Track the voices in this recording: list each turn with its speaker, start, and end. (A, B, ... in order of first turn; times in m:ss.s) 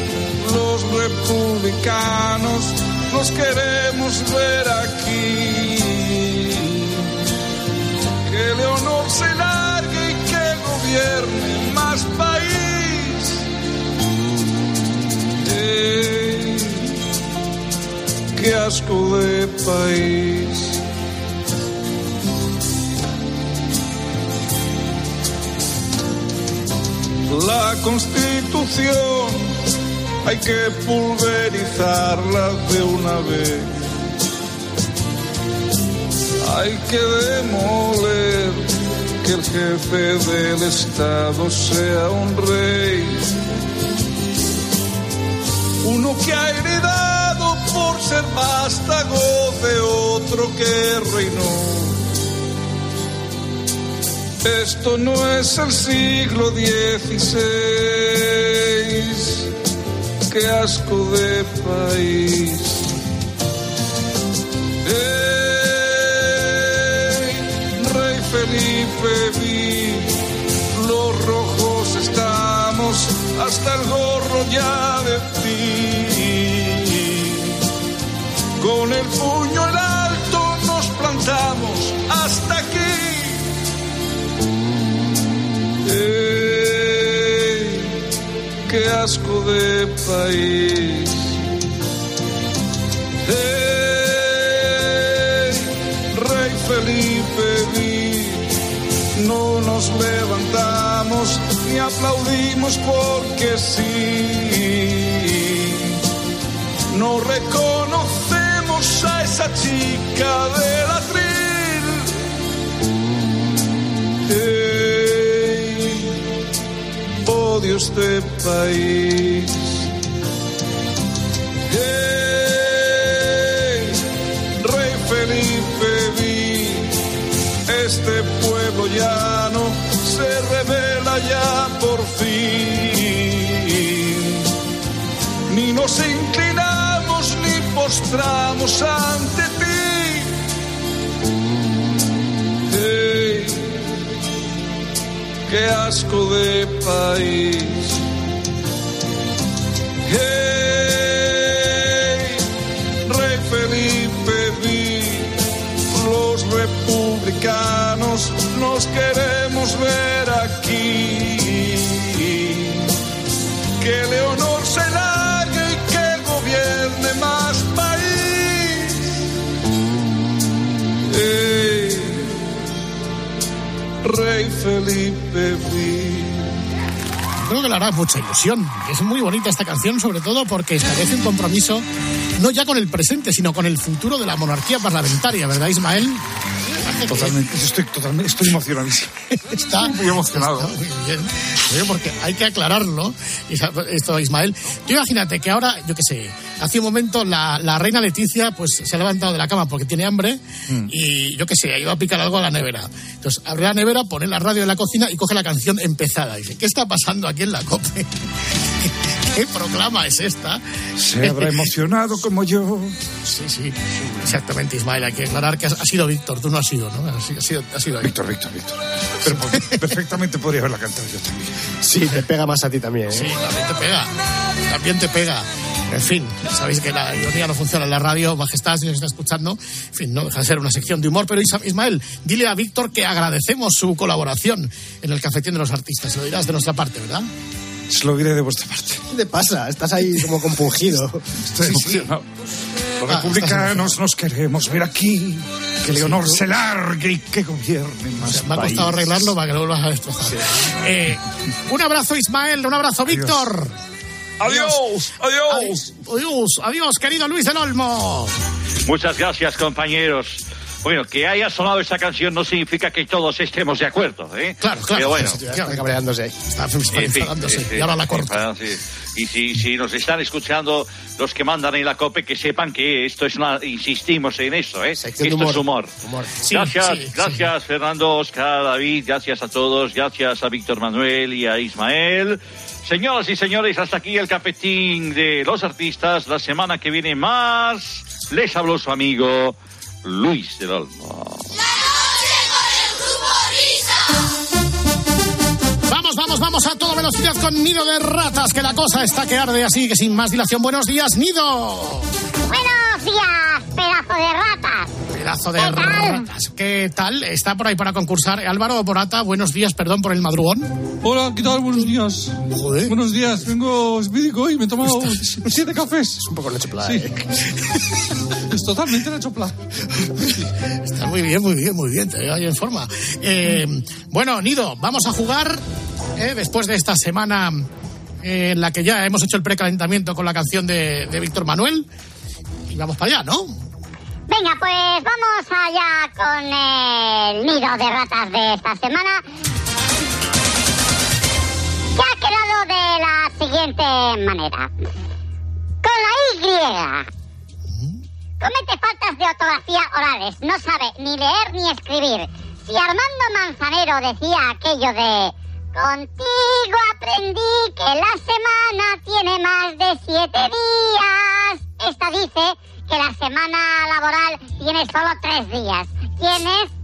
0:00.4-0:07.1 A
0:08.3-0:13.4 A
0:15.4-0:16.9 A
0:18.3-0:20.8 A
0:27.3-0:29.5 A
0:30.2-0:33.7 A
0:36.4-0:43.3 A
0:45.8-0:52.0 A
0:54.4-0:59.5 A
1:00.3-1:02.9 A
1:04.8-1:10.2 A
1:10.7-1:17.5 A
1:18.6-1:23.5 A
1:25.8-1:28.0 A
1:28.7-1:31.3 A
1:33.2-1:38.5 A
1:39.2-1:46.0 A
1:46.9-1:52.1 A
1:54.3-1:56.2 A
1:57.2-1:59.8 A
2:01.7-2:04.0 A
2:04.6-2:06.9 A
2:07.7-2:14.4 A
2:15.5-2:20.3 A
2:22.7-2:23.8 A
2:25.5-2:28.0 A
2:30.0-2:32.4 A
2:33.0-2:35.4 A
2:35.9-2:42.9 A
2:43.8-2:49.0 A
2:51.1-2:52.5 A
2:54.0-2:56.5 A
2:57.4-3:01.8 B
3:02.4-3:06.2 B
3:06.8-3:07.4 B
3:07.1-3:09.1 C
3:09.5-3:28.1 B
3:09.7-3:10.7 C
3:28.8-3:30.6 B
3:31.0-3:33.0 C
3:31.2-3:31.6 B
3:33.2-3:38.1 B
3:38.0-3:41.7 C
3:41.8-3:43.3 D
3:43.1-3:44.1 B
3:44.7-3:57.3 B
3:57.9-3:59.0 C
3:59.1-4:01.2 D
4:01.5-4:02.2 C
4:03.0-4:09.1 C
4:03.1-4:03.7 B
4:08.2-4:13.7 B
4:13.1-4:13.4 C
4:14.4-4:14.8 B
4:14.4-4:15.6 A
4:15.5-4:18.3 B
4:18.8-4:25.4 E
4:24.6-4:25.8 B
4:25.1-4:26.4 D
4:26.5-4:28.4 B
4:26.9-4:35.9 E
4:35.0-4:36.4 D
4:36.4-4:37.4 B
4:36.5-4:51.5 E
4:55.9-5:02.1 B
5:02.5-5:04.9 F
5:05.1-5:10.7 B
5:05.6-5:06.2 F
5:11.1-5:12.3 G
5:12.5-5:13.0 B
5:13.0-5:14.8 G
5:15.6-5:16.1 G
5:16.2-5:17.2 D
5:18.6-5:19.5 G
5:20.8-5:25.6 B
5:26.2-5:27.7 B
5:28.2-5:31.8 B
5:32.7-5:33.5 B
5:34.3-5:39.2 F
5:42.0-5:44.7 F
5:45.8-5:47.1 F
5:48.4-6:06.7 F